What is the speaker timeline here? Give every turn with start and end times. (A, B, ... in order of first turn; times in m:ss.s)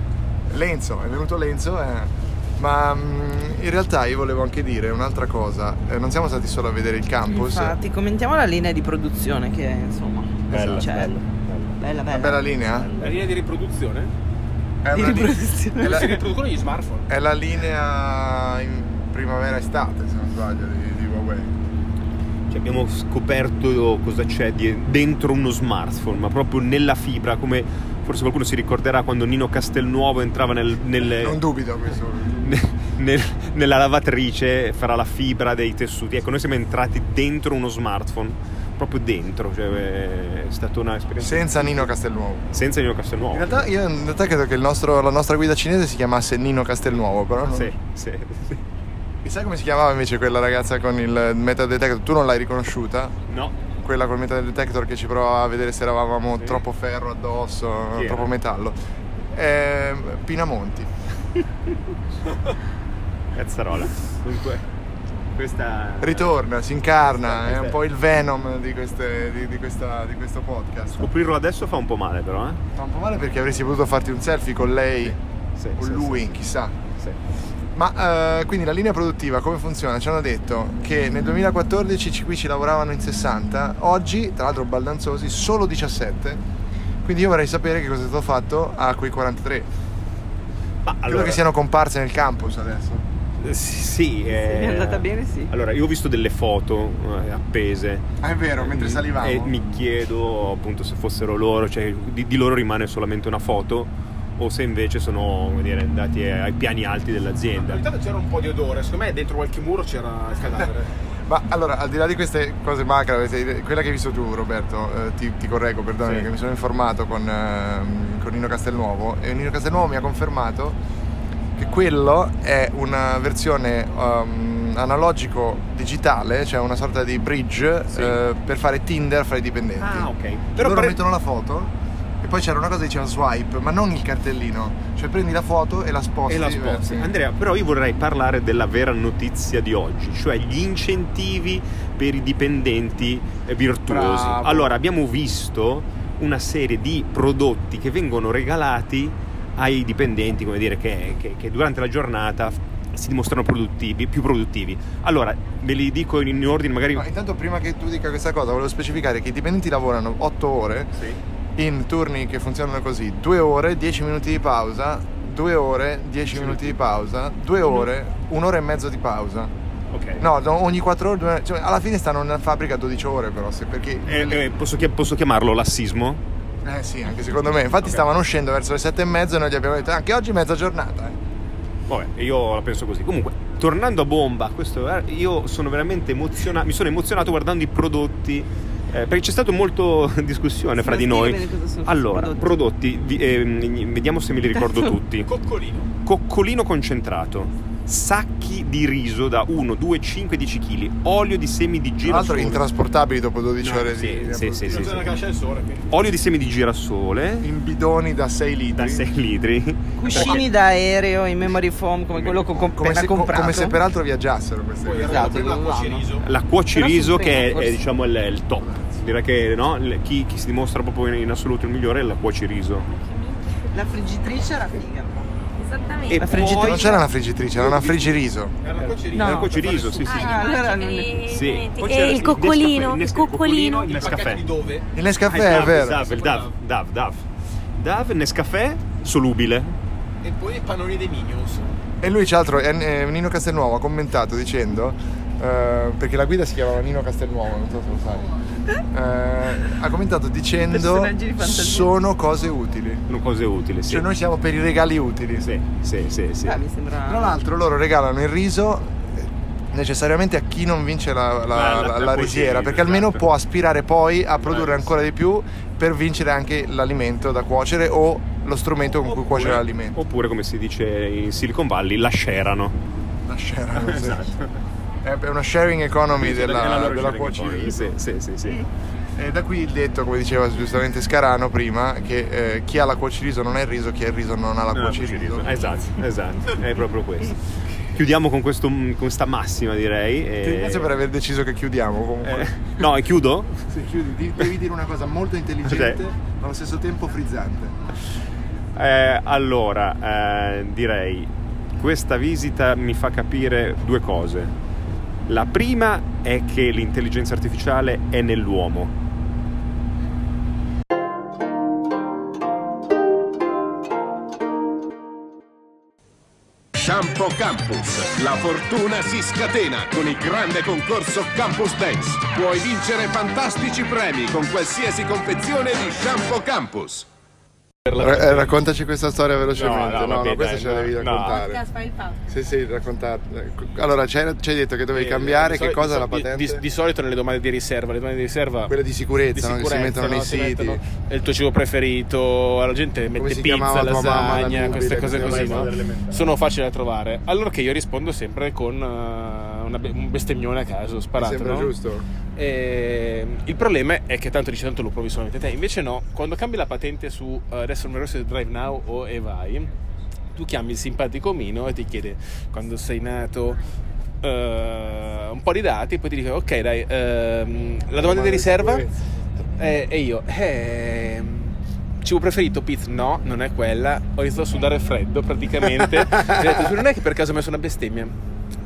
0:00.5-0:07.8 A
0:07.3-0:11.1 B
0:10.5-0:10.9 A
0:10.5-0:11.7 C
0:11.8-0:12.5 B
0:12.1-0:12.9 A
0:12.8-0:13.1 C
0:13.0-0:14.1 D
0:14.8-0:16.2 A
0:14.9-0:16.2 B
0:15.8-0:17.1 D
0:17.1-0:21.5 A
0:22.5-0:31.4 C
0:31.0-0:32.6 A
0:32.4-0:41.9 C
0:41.2-0:42.5 A
0:42.5-0:43.7 C
0:43.3-0:47.7 A
0:47.5-0:48.6 C
0:49.2-0:53.2 A
0:53.3-0:53.5 C
0:53.8-0:58.8 A
0:58.0-0:58.3 C
0:59.3-1:00.9 A
1:03.4-1:04.7 C
1:05.4-1:06.4 C
1:06.0-1:11.1 A
1:07.0-1:07.8 C
1:11.0-1:12.6 C
1:12.8-1:15.2 A
1:15.0-1:16.3 C
1:15.8-1:16.8 A
1:17.8-1:26.4 A
1:27.0-1:29.7 A
1:30.8-1:31.4 C
1:31.1-1:33.0 A
1:33.4-1:38.1 C
1:34.3-1:35.5 B
1:38.2-1:39.5 A
1:38.6-1:47.8 C
1:47.6-1:50.9 D
1:51.3-2:00.8 A
2:01.6-2:17.1 A
2:07.9-2:08.2 C
2:09.8-2:11.0 C
2:16.3-2:37.1 C
2:24.0-2:24.4 D
2:36.9-2:40.9 A
2:41.6-2:49.5 A
2:46.3-2:46.8 C
2:49.9-2:50.2 C
2:50.2-2:54.4 A
2:54.1-2:56.2 C
2:56.6-3:01.2 A
3:01.9-3:15.3 C
3:10.8-3:12.6 B
3:14.6-3:14.9 B
3:15.2-3:15.9 D
3:16.0-3:22.7 C
3:22.0-3:25.0 A
3:23.6-3:25.1 C
3:24.7-3:26.0 D
3:25.9-3:27.5 C
3:27.4-3:29.0 A
3:28.8-3:30.5 C
3:30.0-3:33.8 B
3:30.1-3:30.4 D
3:32.1-3:32.6 C
3:32.8-3:35.5 A
3:34.8-3:36.3 D
3:35.1-3:36.1 B
3:36.2-3:42.9 C
3:36.7-3:37.8 B
3:38.6-3:38.9 A
3:43.7-3:45.3 B
3:45.8-3:46.1 E
3:46.1-3:46.9 C
3:46.1-3:47.0 B
3:46.4-3:48.5 A
3:47.6-3:50.4 D
3:49.1-3:49.5 B
3:49.1-3:50.6 C
3:50.1-3:54.1 E
3:50.1-3:51.2 B
3:51.2-3:54.5 C
3:53.9-3:54.9 D
3:54.9-3:56.0 A
3:55.3-3:57.2 C
3:55.7-3:56.5 D
3:57.8-3:59.8 C
4:00.2-4:01.7 D
4:02.0-4:08.3 A
4:08.9-4:13.0 A
4:10.7-4:12.0 B
4:13.1-4:14.1 C
4:13.9-4:15.5 A
4:15.4-4:16.6 C
4:16.4-4:17.4 B
4:17.1-4:30.0 A
4:21.5-4:23.2 C
4:24.5-4:25.0 C
4:29.1-4:32.8 C
4:33.3-4:34.3 A
4:33.7-4:34.5 C
4:35.0-4:38.0 A
4:36.2-4:38.7 C
4:39.2-4:45.7 A
4:44.7-4:50.9 C
4:50.4-4:52.5 A
4:52.2-4:53.6 C
4:53.7-4:57.7 A
4:55.6-4:56.0 C
4:58.8-5:04.5 C
5:05.3-5:08.9 C
5:16.8-5:27.1 F
5:27.9-5:28.5 D
5:28.0-5:31.6 A
5:29.6-5:31.4 C
5:32.3-5:36.6 A
5:34.9-5:38.7 D
5:38.7-5:40.8 A
5:39.3-5:51.7 D
5:43.2-5:45.8 A
5:44.9-5:46.3 C
5:51.2-5:52.1 A
5:52.4-5:59.7 D
6:00.3-6:03.6 D
6:04.2-6:08.9 D
6:08.0-6:08.9 A
6:09.6-6:18.1 D